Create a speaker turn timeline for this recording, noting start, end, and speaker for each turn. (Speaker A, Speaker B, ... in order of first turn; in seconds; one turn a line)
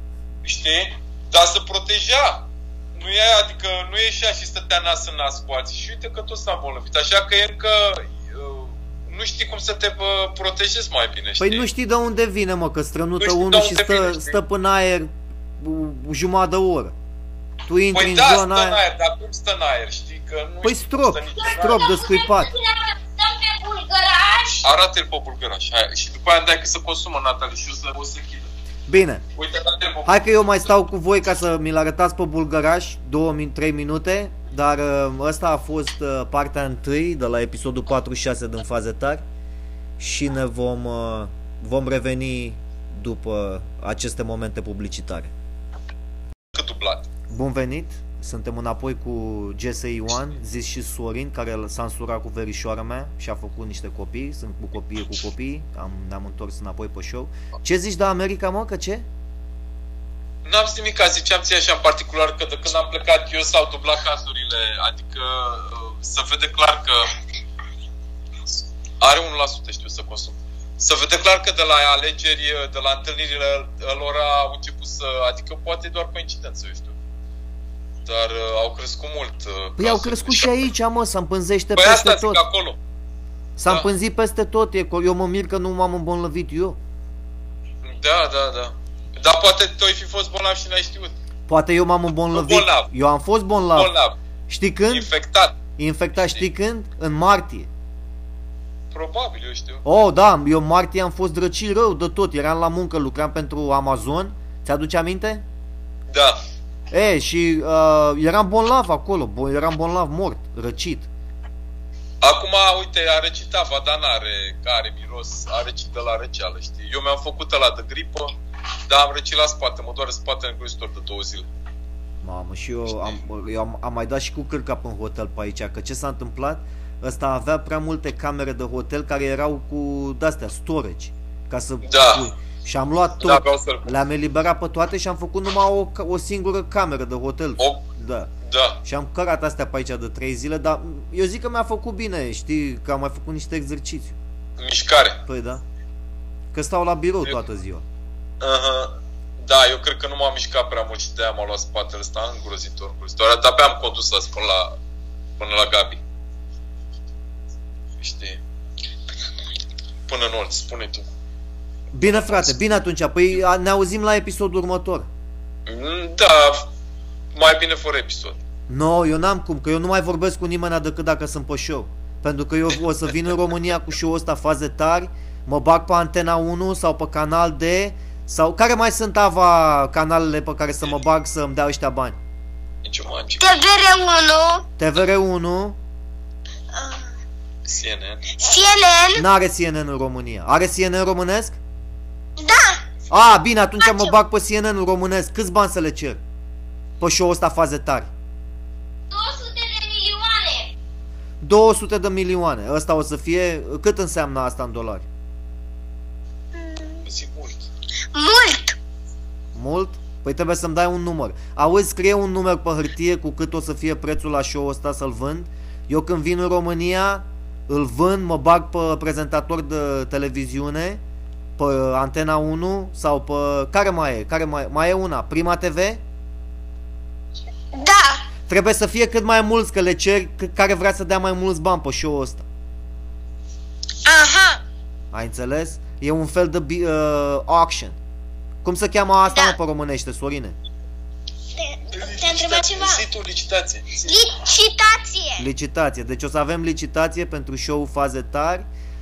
Speaker A: 0.4-11.7
Speaker B: 11.4-16.9
Speaker A: 13.2-14.4
Speaker B: 17.7-18.8
Speaker A: 17.9-21.9
Speaker B: 20.6-22.5
Speaker C: 21.4-24.7
Speaker A: 24.6-28.5
Speaker B: 28.9-29.2
Speaker A: 29.4-30.2
Speaker B: 30.1-39.2
Speaker B: 40.0-45.3
Speaker A: 46.5-47.1
Speaker B: 47.3-59.0
Speaker A: 60.5-67.1
Speaker A: 69.0-77.0
Speaker A: 78.1-80.6
Speaker B: 79.8-82.4
Speaker A: 81.8-82.8
Speaker B: 83.6-86.8
Speaker A: 87.8-91.1
Speaker B: 91.5-93.9
Speaker A: 92.3-92.9
Speaker A: 93.7-94.2
Speaker B: 94.5-95.1
Speaker A: 94.9-95.6
Speaker B: 95.8-97.7
Speaker A: 98.9-99.8
Speaker B: 99.8-105.4
Speaker A: 106.1-106.4
Speaker B: 106.9-111.1
Speaker A: 112.2-118.3
Speaker A: 118.9-121.5
Speaker B: 122.2-138.3
Speaker A: 131.8-132.3
Speaker A: 133.2-133.9
Speaker A: 137.6-137.8
Speaker A: 138.4-138.8
Speaker B: 138.8-144.2
Speaker A: 144.6-145.2
Speaker B: 145.3-145.6
Speaker B: 146.5-147.8
Speaker A: 148.4-154.8
Speaker A: 155.4-156.0
Speaker A: 158.0-158.4
Speaker A: 160.1-161.1
Speaker B: 161.9-165.1
Speaker A: 165.7-166.7
Speaker A: 167.3-168.4
Speaker B: 168.7-182.2
Speaker A: 182.8-183.6
Speaker C: 183.4-184.7
Speaker B: 184.8-185.8
Speaker C: 186.7-187.1
Speaker A: 187.7-188.2
Speaker C: 188.4-189.2
Speaker B: 189.2-191.6
Speaker C: 192.4-192.8
Speaker B: 193.1-196.2
Speaker C: 193.8-194.2
Speaker B: 197.0-198.1
Speaker C: 199.1-200.7
Speaker B: 201.4-205.1
Speaker C: 206.6-207.0
Speaker A: 207.1-207.7
Speaker C: 208.1-208.8
Speaker B: 209.5-221.0
Speaker B: 221.6-226.0
Speaker C: 227.7-228.3
Speaker B: 228.5-232.5
Speaker C: 234.1-234.6
Speaker B: 235.1-238.0
Speaker B: 238.6-240.6
Speaker C: 239.3-239.6
Speaker C: 241.6-243.0
Speaker A: 241.9-244.2
Speaker C: 244.0-245.5
Speaker B: 245.4-248.7